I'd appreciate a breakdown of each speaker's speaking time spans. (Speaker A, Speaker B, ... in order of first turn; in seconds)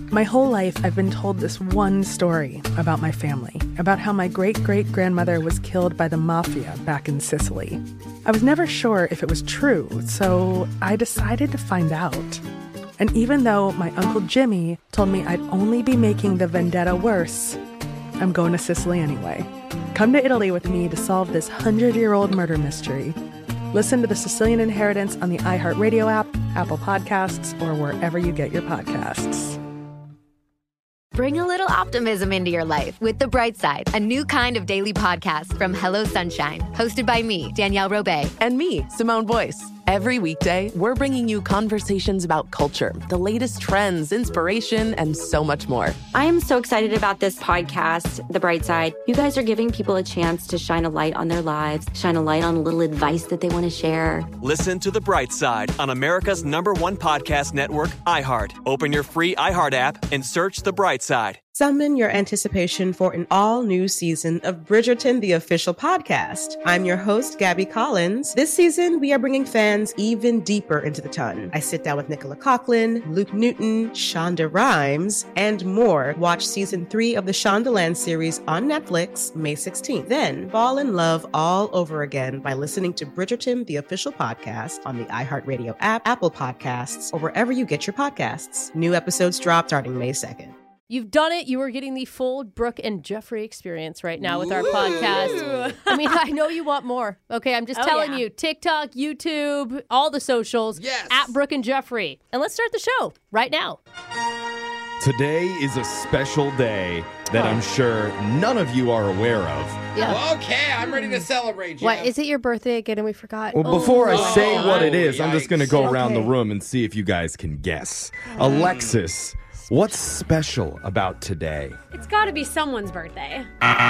Speaker A: 0.1-12.4, 13.0-17.6, 18.2-23.2, 23.7-29.6
Speaker B: 31.1-38.4
Speaker C: 38.4-46.0
Speaker D: 46.1-54.3
Speaker E: 54.4-61.4
Speaker F: 61.5-90.5
Speaker G: 90.9-103.8, 110.0-110.2, 111.8-114.9, 115.7-116.3
Speaker H: 94.2-95.7, 100.8-101.3, 110.0-112.1, 114.1-116.0, 118.4-119.0
Speaker I: 94.6-96.2, 97.8-98.2, 121.9-123.5
Speaker J: 105.0-109.8, 113.5-121.8